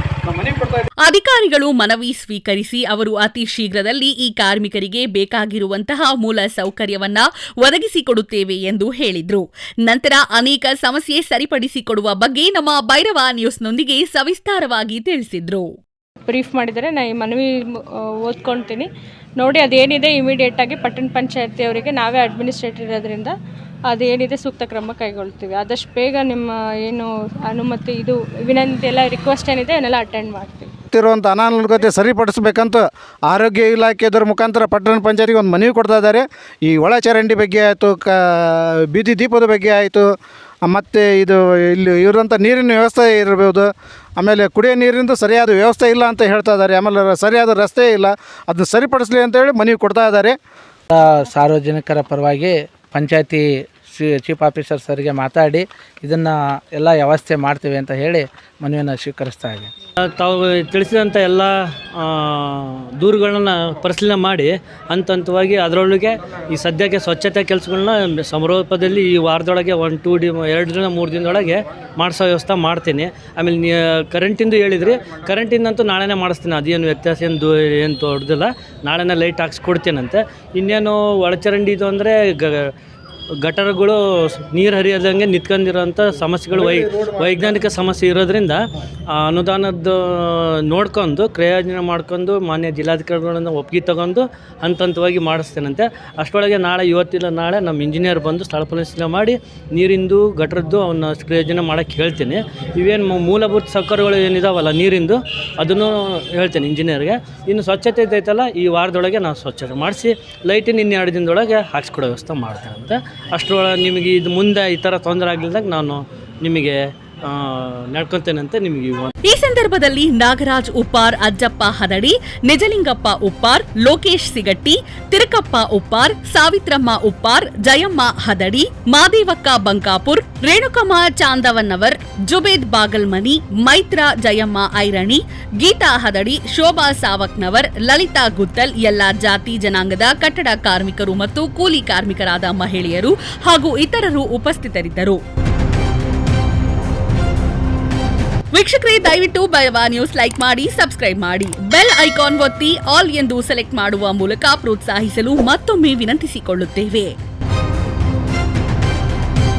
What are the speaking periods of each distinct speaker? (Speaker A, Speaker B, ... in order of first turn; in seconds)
Speaker A: 0.2-0.9, 30.9-40.0, 40.7-50.4, 86.5-87.7
Speaker B: 1.0-15.7, 119.2-145.2, 148.5-157.1
Speaker C: 16.3-23.3, 23.9-30.7
Speaker D: 50.9-59.7
Speaker E: 60.0-82.7, 83.4-88.6, 89.2-119.1